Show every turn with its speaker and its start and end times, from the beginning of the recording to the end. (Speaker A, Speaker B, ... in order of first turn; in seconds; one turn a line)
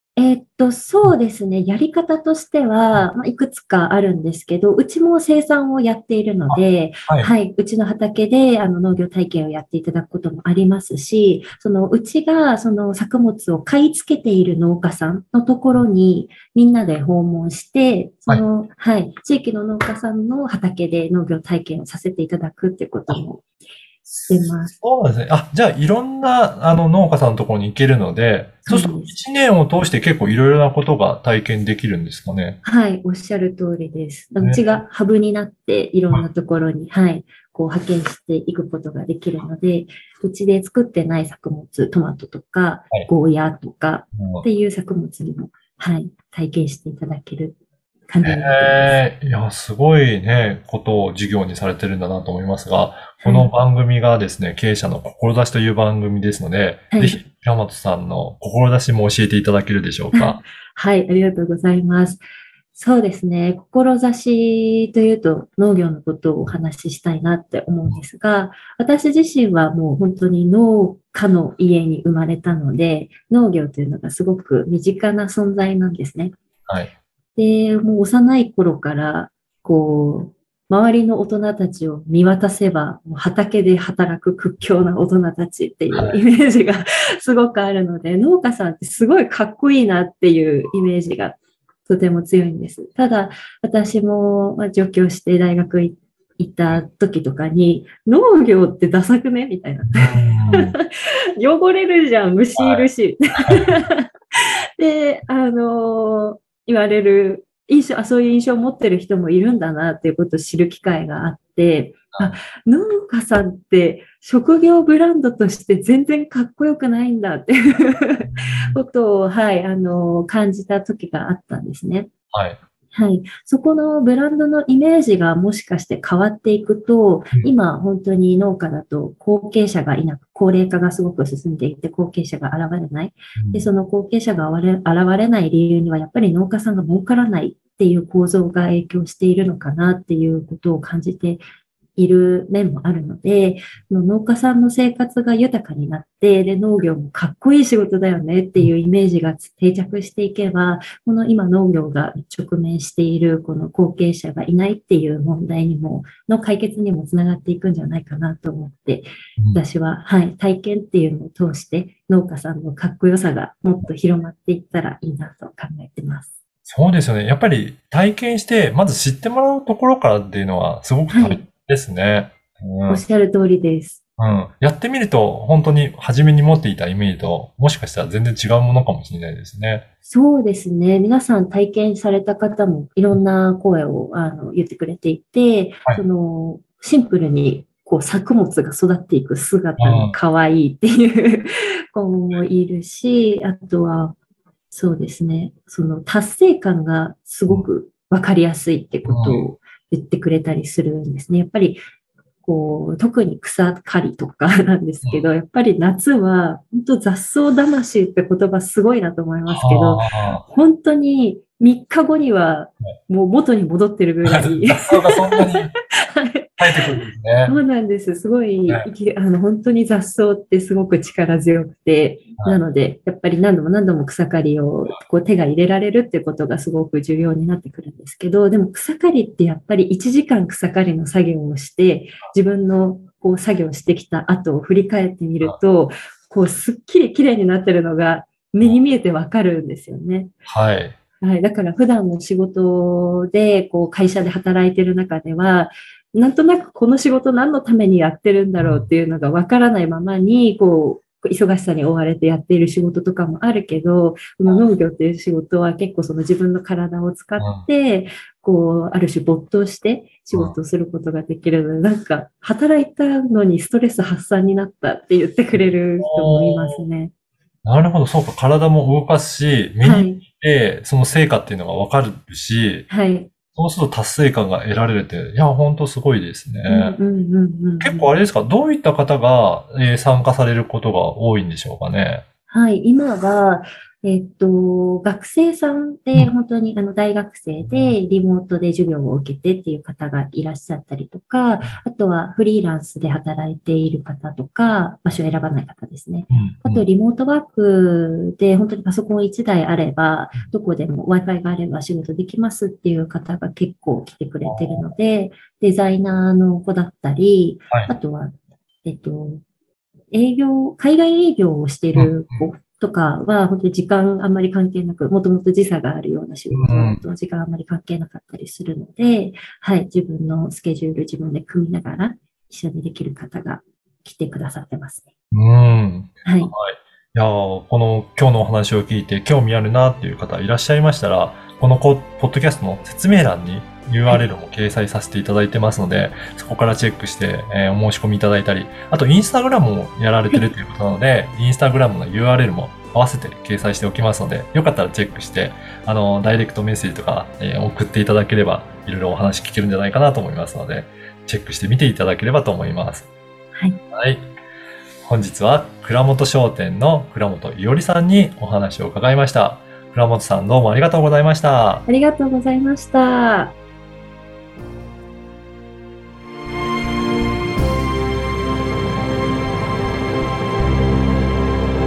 Speaker A: 0.1-23.4
Speaker B: 6.5-7.3
Speaker B: 24.2-32.6
Speaker A: 24.3-24.7
Speaker A: 28.6-29.1
Speaker A: 32.6-47.6
Speaker B: 34.4-34.8
Speaker B: 44.2-44.4
Speaker A: 48.1-49.0
Speaker B: 48.2-60.4
Speaker A: 53.2-53.5
Speaker A: 56.9-57.2
Speaker A: 60.1-76.4
Speaker A: 77.4-122.1
Speaker B: 85.9-86.2
Speaker B: 99.9-100.8
Speaker B: 102.6-103.8
Speaker B: 118.2-118.8
Speaker B: 122.3-122.6
Speaker A: 122.9-141.4
Speaker B: 133.4-133.7
Speaker A: 142.0-166.3
Speaker B: 166.7-173.0
Speaker A: 171.1-171.4
Speaker A: 172.9-174.0
Speaker B: 174.2-179.8
Speaker A: 180.0-194.2
Speaker B: 189.8-190.2
Speaker A: 194.7-201.8
Speaker B: 199.0-199.4
Speaker A: 202.4-216.8
Speaker B: 209.5-210.4
Speaker B: 214.2-215.7
Speaker B: 216.6-217.6
Speaker A: 217.5-240.3
Speaker B: 240.5-241.0
Speaker A: 241.2-267.1
Speaker B: 248.6-248.9
Speaker B: 257.4-257.6
Speaker B: 265.6-266.8
Speaker B: 267.6-272.9
Speaker A: 269.8-270.2
Speaker A: 272.9-273.3
Speaker B: 273.6-277.0
Speaker A: 276.7-278.1
Speaker B: 277.8-282.2
Speaker A: 282.5-309.4
Speaker B: 287.6-287.9
Speaker B: 296.3-296.9
Speaker B: 304.4-304.9
Speaker A: 310.1-325.1
Speaker B: 312.0-312.4
Speaker B: 316.5-317.0
Speaker B: 325.3-353.1
Speaker A: 326.2-326.5
Speaker B: 353.9-354.3
Speaker B: 355.0-361.9
Speaker A: 361.9-363.6